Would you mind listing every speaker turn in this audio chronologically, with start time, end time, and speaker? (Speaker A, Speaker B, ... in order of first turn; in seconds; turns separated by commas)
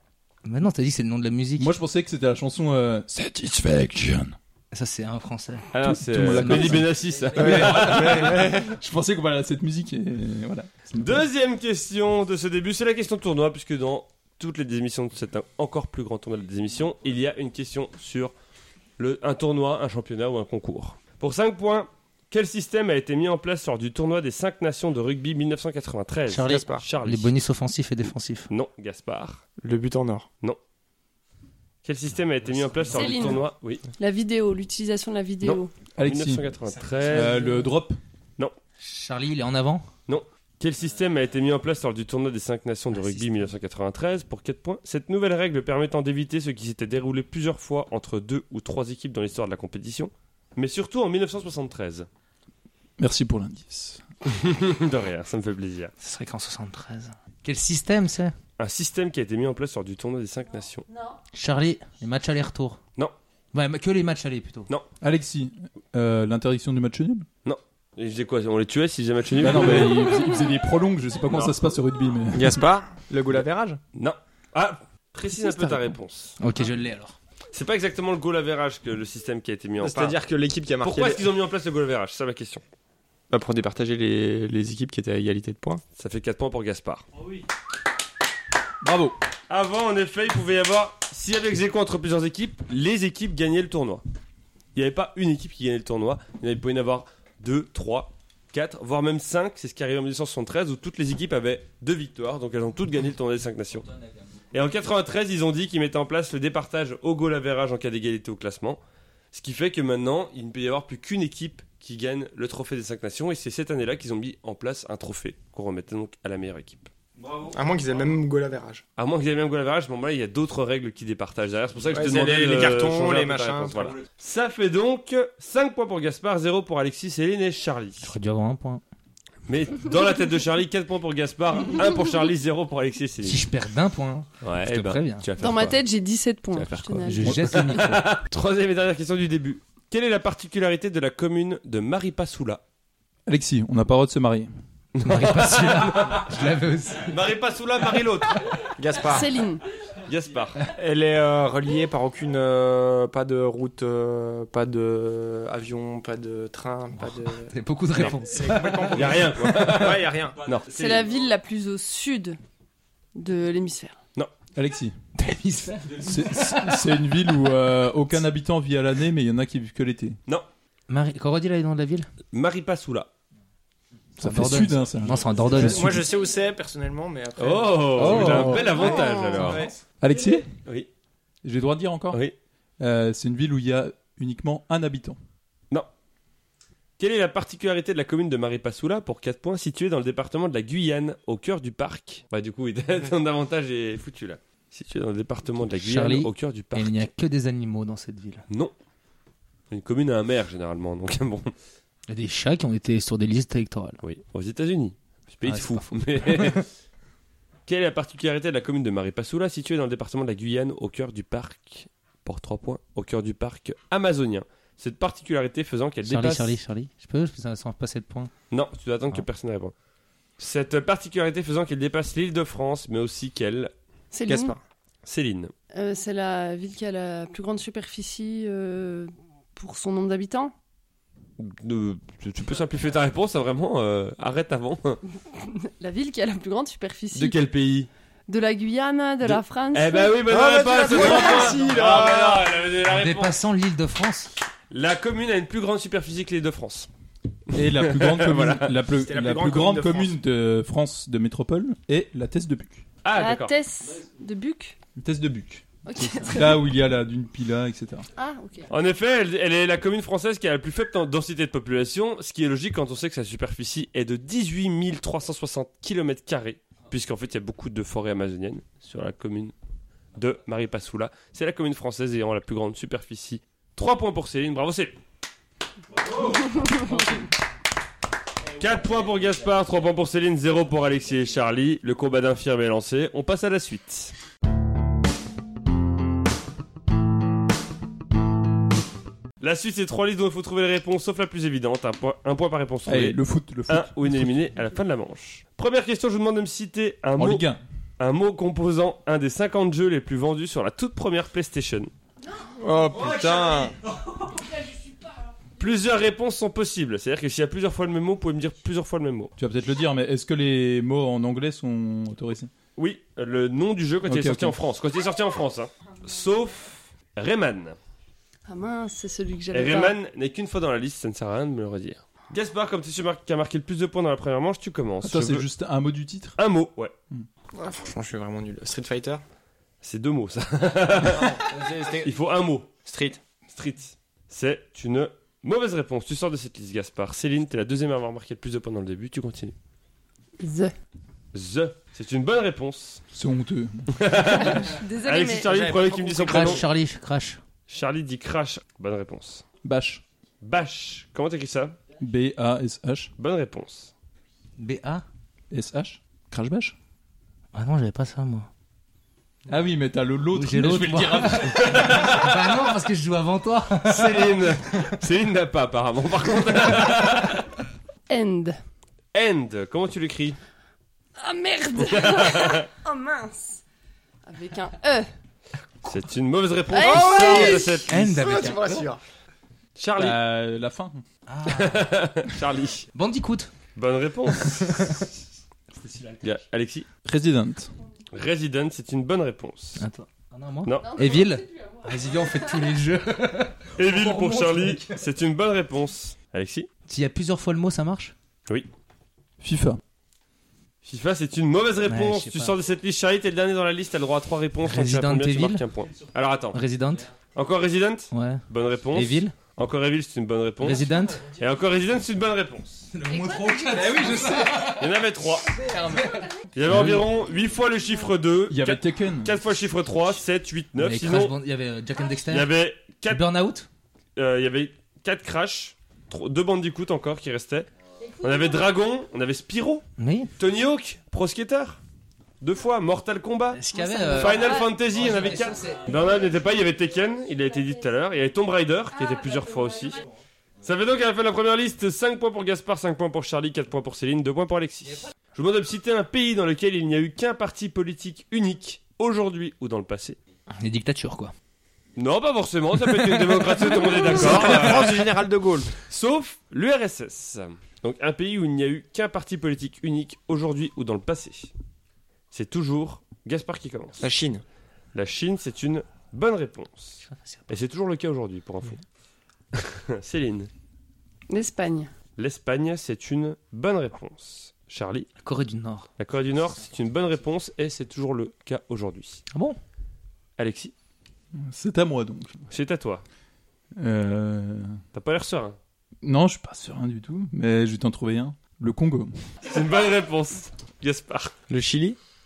Speaker A: 0.4-1.7, Speaker B: 1.6-4.3, Speaker A: 4.7-5.7, Speaker C: 5.7-8.5, Speaker B: 5.8-11.2, Speaker A: 6.3-6.8, Speaker D: 7.3-8.8, Speaker C: 10.9-18.3, Speaker C: 19.0-27.3, Speaker A: 26.3-28.5, Speaker D: 26.4-26.8, Speaker C: 28.5-29.4, Speaker D: 29.6-30.3, Speaker C: 31.8-33.8, Speaker A: 32.7-33.4, Speaker E: 32.9-33.5, Speaker E: 34.0-35.7, Speaker C: 35.4-37.4, Speaker B: 36.0-36.4, Speaker B: 37.1-38.0, Speaker A: 38.8-39.9, Speaker C: 40.1-52.1, Speaker A: 42.9-43.5, Speaker B: 53.0-54.0, Speaker C: 54.2-55.9, Speaker A: 56.0-58.4, Speaker C: 58.6-60.9, Speaker A: 61.3-62.8, Speaker A: 63.5-64.7, Speaker B: 65.0-67.3, Speaker C: 67.4-70.1, Speaker B: 69.4-72.6, Speaker D: 72.3-73.8, Speaker C: 73.9-76.4, Speaker A: 76.4-77.2, Speaker C: 77.5-80.2, Speaker D: 79.8-81.2, Speaker C: 80.8-82.6, Speaker D: 83.3-85.8, Speaker C: 85.9-87.0, Speaker B: 88.8-89.2, Speaker C: 89.5-94.0, Speaker C: 94.7-103.9, Speaker C: 104.5-108.8, Speaker C: 109.3-117.5, Speaker D: 117.5-118.8, Speaker C: 119.0-128.1, Speaker D: 121.9-124.0, Speaker A: 128.0-128.8, Speaker C: 129.5-133.4, Speaker A: 133.2-135.5, Speaker C: 134.4-135.8, Speaker E: 135.4-137.7, Speaker C: 136.5-142.6, Speaker A: 137.0-138.1, Speaker B: 137.2-137.5, Speaker B: 143.2-144.5, Speaker A: 145.0-147.2, Speaker C: 145.0-146.3, Speaker C: 147.1-148.4, Speaker D: 148.8-149.3, Speaker E: 149.1-149.6, Speaker C: 150.1-150.7, Speaker D: 150.7-160.4, Speaker A: 156.9-159.2, Speaker C: 158.9-161.1, Speaker E: 160.7-162.4, Speaker E: 163.2-163.9, Speaker B: 164.5-164.9, Speaker A: 165.1-166.9, Speaker B: 166.0-170.2, Speaker A: 170.9-172.1, Speaker C: 172.3-173.1, Speaker A: 174.2-176.0, Speaker B: 174.2-176.0, Speaker D: 175.4-179.7, Speaker C: 177.4-179.6, Speaker A: 178.0-178.7, Speaker B: 178.0-178.7, Speaker E: 178.7-179.6, Speaker B: 180.0-180.5, Speaker C: 180.5-180.9, Speaker B: 181.4-182.2, Speaker B: 182.8-185.2, Speaker C: 187.0-197.0, Speaker A: 195.7-198.4, Speaker C: 199.7-201.5, Speaker A: 202.1-204.0, Speaker C: 204.0-206.7, Speaker A: 205.4-206.6, Speaker C: 207.7-216.6, Speaker A: 216.0-218.3, Speaker C: 218.5-219.7, Speaker C: 220.4-223.7, Speaker E: 224.1-224.6, Speaker D: 224.2-224.6, Speaker C: 225.0-225.5, Speaker E: 225.7-230.5, Speaker C: 231.4-235.0, Speaker E: 235.3-237.4, Speaker C: 237.1-237.9, Speaker E: 238.3-240.2, Speaker C: 239.2-243.4, Speaker D: 240.3-242.5, Speaker E: 240.9-241.5, Speaker A: 242.8-244.3, Speaker C: 244.7-246.9, Speaker B: 247.5-252.8, Speaker C: 247.5-248.5, Speaker D: 248.5-250.1, Speaker C: 253.0-253.5, Speaker E: 253.2-254.8, Speaker B: 255.0-258.1, Speaker E: 255.8-256.6, Speaker E: 258.2-258.7, Speaker C: 258.7-269.5, Speaker C: 270.1-275.0, Speaker E: 276.5-277.0, Speaker C: 278.6-284.1, Speaker C: 289.4-297.5, Speaker B: 292.9-294.4, Speaker B: 297.2-297.6, Speaker C: 298.0-301.9, Speaker D: 302.6-303.7, Speaker C: 305.6-309.3, Speaker B: 309.4-312.5, Speaker C: 312.8-317.8, Speaker B: 314.0-314.6, Speaker E: 318.5-319.9, Speaker C: 319.5-325.4, Speaker B: 325.0-326.4, Speaker C: 326.4-326.9, Speaker D: 327.5-329.2, Speaker C: 329.8-332.7, Speaker D: 331.1-332.1, Speaker D: 332.8-333.2, Speaker C: 333.5-339.5, Speaker E: 340.4-340.7, Speaker C: 341.3-343.0, Speaker B: 343.1-343.9, Speaker C: 343.9-346.6, Speaker E: 344.2-345.5, Speaker D: 345.4-346.6, Speaker A: 346.2-347.4, Speaker C: 347.7-349.4, Speaker B: 349.6-350.0, Speaker C: 350.4-351.8, Speaker B: 352.0-353.1, Speaker C: 353.2-353.9, Speaker A: 354.6-355.0, Speaker B: 355.5-356.7, Speaker A: 357.5-358.5, Speaker B: 359.5-361.8, Speaker A: 360.3-364.3, Speaker C: 361.4-362.3, Speaker C: 363.9-367.5, Speaker E: 368.1-368.6, Speaker C: 369.1-370.4, Speaker E: 371.2-373.6, Speaker C: 371.8-372.7, Speaker E: 374.2-375.1, Speaker C: 375.8-378.0, Speaker E: 376.7-377.8, Speaker D: 376.9-379.0, Speaker A: 377.1-378.9, Speaker C: 379.8-380.2, Speaker B: 380.0-381.0, Speaker A: 381.3-381.9, Speaker C: 381.5-382.8, Speaker A: 382.9-383.5, Speaker C: 383.7-385.1, Speaker A: 384.6-385.0, Speaker A: 385.8-386.2, Speaker C: 386.2-386.9, Speaker B: 387.0-387.7, Speaker C: 388.1-389.8, Speaker A: 389.8-395.0, Speaker C: 390.6-390.9, Speaker E: 390.8-391.7, Speaker C: 393.8-396.7, Speaker A: 396.9-398.1, Speaker B: 399.4-399.8, Speaker C: 400.8-406.6, Speaker A: 401.8-402.6, Speaker A: 404.7-405.6, Speaker A: 406.5-407.1, Speaker C: 407.3-412.9, Speaker A: 408.1-409.3, Speaker A: 410.6-411.3, Speaker A: 412.9-414.8, Speaker E: 413.4-413.9, Speaker B: 414.0-414.3, Speaker C: 414.6-415.5, Speaker A: 415.6-417.1, Speaker B: 415.8-416.0, Speaker C: 416.5-421.4, Speaker B: 418.5-419.4, Speaker A: 420.8-422.5, Speaker C: 422.2-423.2, Speaker A: 423.1-423.7, Speaker C: 424.1-427.7, Speaker C: 428.2-429.8, Speaker A: 430.0-430.3, Speaker C: 430.4-431.8, Speaker C: 432.4-433.6, Speaker A: 433.5-435.9, Speaker E: 433.7-434.7, Speaker C: 434.2-440.0, Speaker C: 440.6-450.2, Speaker A: 450.5-451.3, Speaker C: 451.9-455.2, Speaker A: 452.9-454.0, Speaker D: 454.0-455.7, Speaker C: 455.7-461.5, Speaker C: 462.3-464.0, Speaker D: 464.0-464.4, Speaker C: 464.9-468.8, Speaker A: 467.0-467.5, Speaker C: 469.5-470.5, Speaker E: 471.3-471.9, Speaker C: 472.2-475.1, Speaker A: 475.2-475.9, Speaker C: 476.0-479.2, Speaker A: 479.3-479.6, Speaker C: 480.4-480.7, Speaker B: 481.3-482.4, Speaker C: 482.5-483.0, Speaker B: 483.8-484.8, Speaker C: 484.9-485.6, Speaker B: 486.0-489.2, Speaker C: 489.4-491.3, Speaker D: 491.5-492.0